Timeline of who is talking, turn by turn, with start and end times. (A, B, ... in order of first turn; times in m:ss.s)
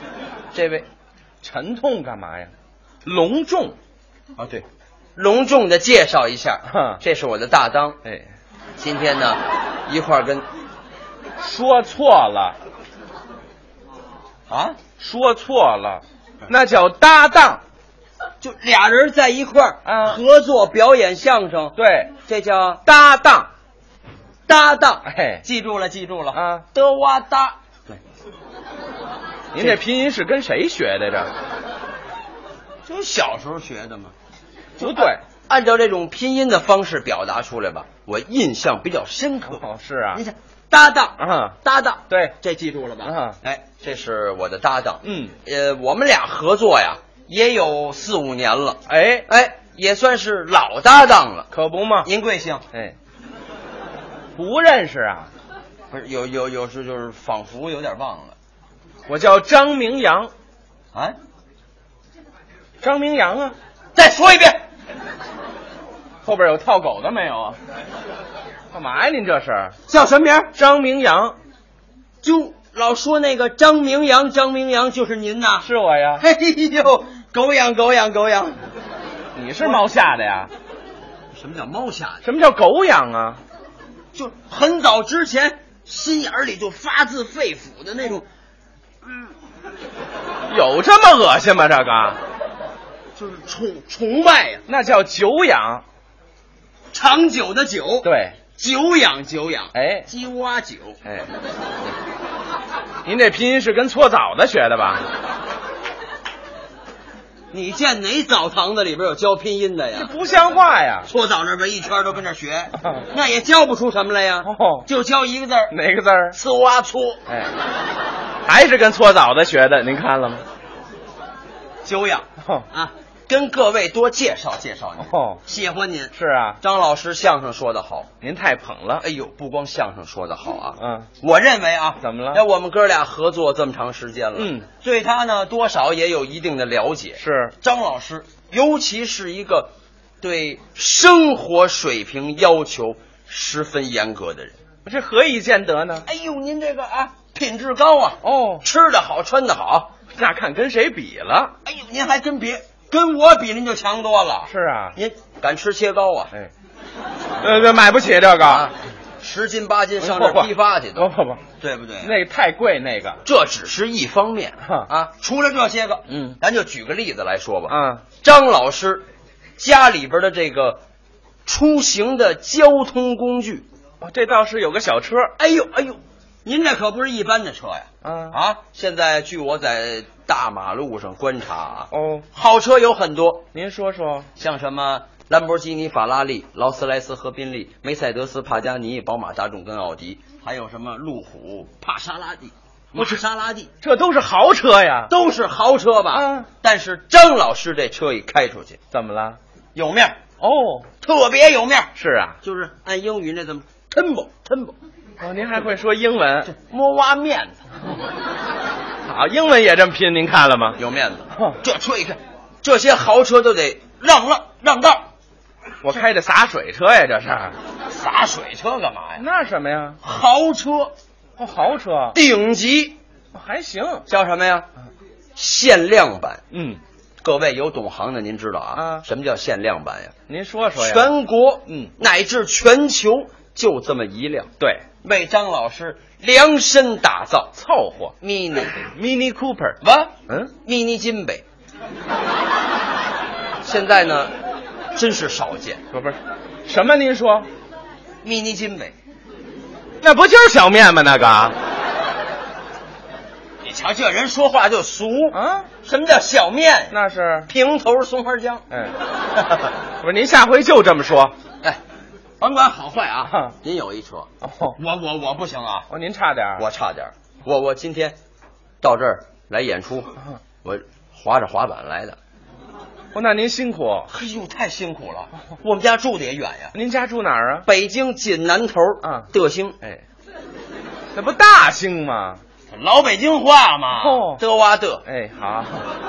0:00.5-0:00.8 A
0:01.4-0:02.5 B
0:03.0-0:03.8 B
0:04.4-0:04.6 A
0:05.2-0:08.0 A
0:06.7-0:07.0 B
0:08.8-0:10.4 A
0:11.4-0:12.6 B
0:14.5-0:14.8 A
0:15.0-0:17.6 B
0:18.4-0:22.8 A
0:19.8-0:20.2 B
0:21.8-0:22.1 B
0:22.8-0:23.5 B
0:24.5-0:28.0 A
0:25.0-0:25.4 B
0:26.3-0:26.7 B
0:29.5-0:31.3 B
0:32.9-0:34.1 A
0:34.8-0:35.2 B
0:34.8-0:51.5 A
0:39.5-0:40.2 B
0:41.2-0:41.6 B
0:42.1-0:42.4 B
0:43.0-0:43.4 B
0:45.0-0:45.4 B
0:48.9-0:49.3 B
0:51.5-0:52.1 B
0:52.0-0:52.6 A
0:54.4-0:55.3 B
0:55.9-0:58.3 A
0:59.1-1:00.3 B
1:02.8-1:03.6 B
1:03.9-1:04.6 A
1:06.2-1:07.6 B
1:08.7-1:09.8 B
1:09.9-1:10.5 A
1:10.6-1:11.4 B
1:12.2-1:15.7 A
1:15.6-1:16.2 B
1:16.2-1:18.6 A
1:19.3-1:20.5 B
1:21.3-1:22.2 A
1:22.2-1:23.4 B
1:24.1-1:28.2 A
1:30.5-1:32.2 B
1:33.2-1:34.6 A
1:34.7-1:35.8 B
1:36.9-1:41.0 A
1:38.0-1:38.4 B
1:39.7-1:40.1 B
1:43.0-1:45.1 B
1:47.5-1:50.1 A
1:49.9-1:51.1 B
1:51.1-1:55.8 A
1:52.8-1:53.0 B
1:54.4-1:54.9 B
1:55.7-1:56.4 B
1:56.3-1:57.2 A
1:58.4-2:00.4 B
2:01.8-2:08.1 A
2:02.4-2:02.7 B
2:05.0-2:05.4 B
2:06.1-2:06.6 B
2:08.2-2:09.0 B
2:09.0-2:24.6 A
2:10.8-2:11.1 B
2:12.0-2:12.4 B
2:14.4-2:14.6 B
2:17.2-2:17.6 B
2:24.8-2:26.1 B
2:26.0-2:29.9 A
2:28.2-2:28.6 B
2:30.1-2:31.5 B
2:31.6-2:36.3 A
2:34.5-2:35.0 B
2:37.4-2:38.7 B
2:38.4-2:42.1 A
2:40.0-2:41.4 B
2:42.0-2:43.2 B
2:43.2-2:49.1 A
2:46.1-2:46.4 B
2:47.7-2:48.0 B
2:49.6-2:50.8 A
2:51.4-2:53.6 A
2:54.0-2:55.3 B
2:55.4-3:03.4 A
2:58.0-2:58.4 B
3:01.9-3:02.3 B
3:03.5-3:04.3 B
3:04.4-3:13.7 A
3:13.8-3:15.1 B
3:15.1-3:18.8 A
3:16.1-3:16.5 B
3:18.9-3:19.4 B
3:19.8-3:20.2 A
3:20.4-3:20.9 B
3:21.0-3:24.8 A
3:22.0-3:22.4 B
3:25.2-3:26.5 B
3:26.4-3:27.6 A
3:29.1-3:30.8 B
3:30.8-3:35.1 A
3:35.8-3:37.6 B
3:37.9-3:39.2 A
3:39.2-3:40.0 B
3:40.0-3:40.9 A
3:41.4-3:42.2 B
3:42.1-3:43.0 A
3:43.3-3:44.1 B
3:44.1-3:44.7 A
3:45.4-3:46.4 A
3:46.5-3:46.8 B
3:47.2-3:50.1 A
3:48.8-3:49.0 B
3:50.3-3:51.1 B
3:50.8-3:54.5 A
3:55.0-3:57.5 A
3:57.6-3:58.1 B
3:58.2-3:58.9 A
3:58.9-3:59.8 B
3:59.8-4:01.4 A
4:03.6-4:04.3 A
4:04.9-4:05.8 A
4:05.9-4:07.5 B
4:08.2-4:09.0 A
4:10.0-4:11.6 B
4:13.6-4:16.9 A
4:15.3-4:15.7 B
4:16.9-4:17.5 B
4:17.5-4:18.6 A
4:18.7-4:19.0 B
4:20.0-4:21.4 B
4:22.4-4:25.9 A
4:23.2-4:23.5 B
4:24.4-4:24.8 B
4:25.9-4:26.6 B
4:26.6-4:28.2 A
4:28.8-4:32.2 A
4:33.1-4:34.1 B
4:34.1-4:36.7 A
4:36.7-4:37.7 B
4:37.7-4:39.8 A
4:39.0-4:39.3 B
4:41.1-4:42.4 B
4:42.7-4:45.0 A
4:44.0-4:44.4 B
4:45.1-4:45.8 B